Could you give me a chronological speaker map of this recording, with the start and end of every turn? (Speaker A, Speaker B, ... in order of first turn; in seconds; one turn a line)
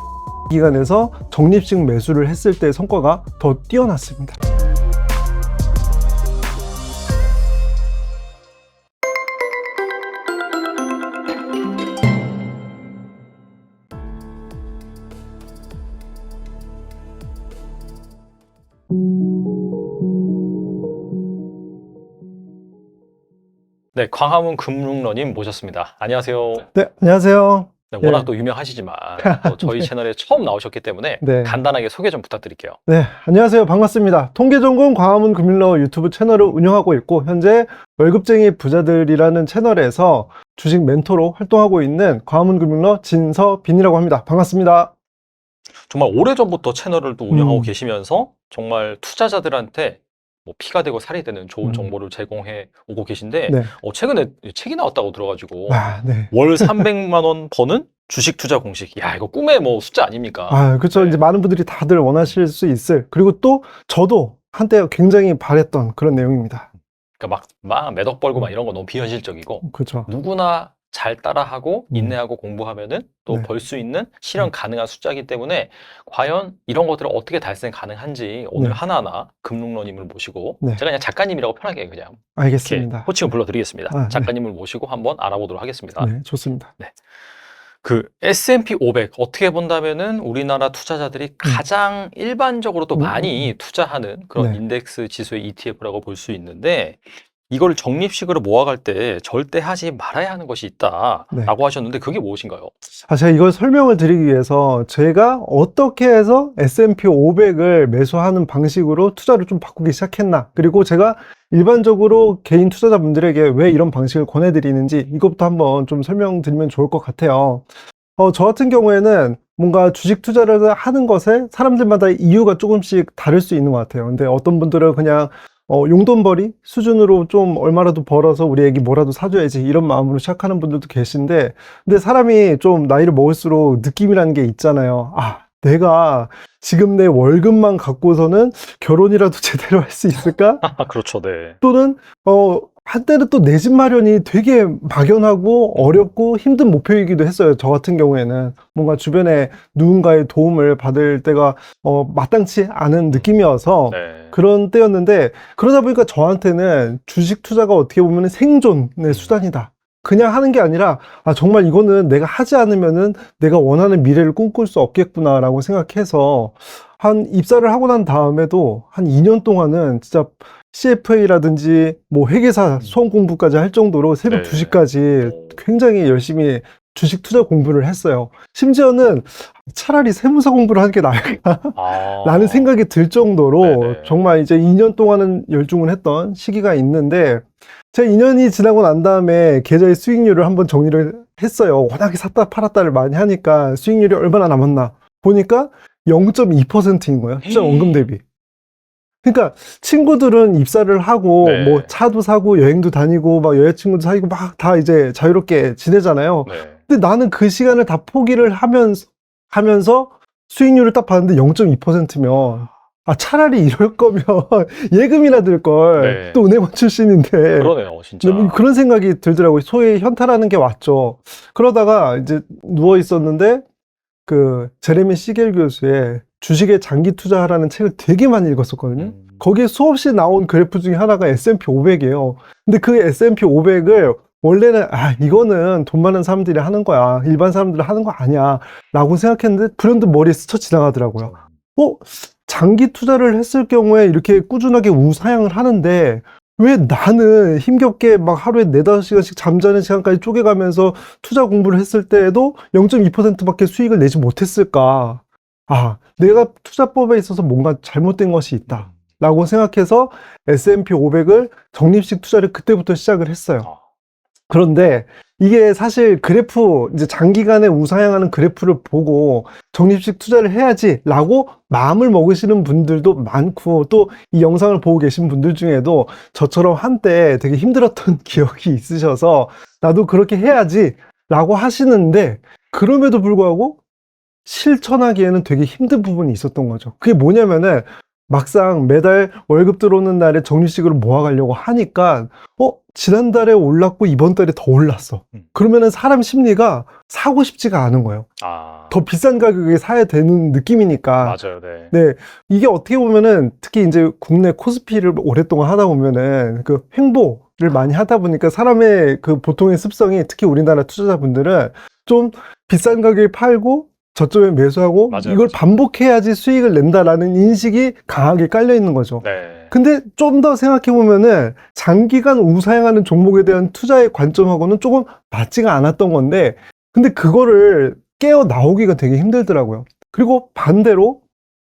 Speaker A: 0.5-4.4
Speaker B: 23.9-26.7
Speaker A: 26.7-28.3
Speaker B: 27.9-32.8
Speaker A: 29.2-29.9
Speaker A: 31.2-31.6
Speaker A: 32.9-44.9
Speaker B: 45.9-61.2
Speaker A: 47.3-47.7
Speaker A: 51.6-51.9
Speaker A: 53.5-53.7
Speaker A: 55.7-56.9
Speaker A: 60.5-66.7
Speaker B: 67.2-86.1
Speaker A: 69.6-70.1
Speaker A: 71.9-72.2
Speaker A: 78.5-78.8
Speaker A: 82.4-83.2
Speaker A: 83.9-84.3
Speaker A: 86.0-86.7
Speaker B: 87.8-102.7
Speaker A: 93.0-93.5
Speaker A: 103.1-140.7
Speaker B: 140.6-141.6
Speaker A: 141.6-198.2
Speaker B: 153.9-154.4
Speaker B: 174.3-175.6
Speaker B: 181.8-182.7
Speaker B: 183.6-184.2
Speaker B: 197.4-198.1
Speaker A: 199.2-223.7
Speaker B: 201.4-201.9
Speaker B: 206.4-206.8
Speaker B: 216.0-216.4
Speaker B: 217.6-218.7
Speaker A: 224.3-263.7
Speaker B: 228.9-229.4
Speaker A: 264.5-283.8
Speaker A: 284.4-298.3
Speaker B: 298.4-299.0
Speaker A: 298.9-301.4
Speaker B: 301.2-301.9
Speaker A: 301.9-331.2
Speaker B: 315.1-315.6
Speaker B: 319.2-319.7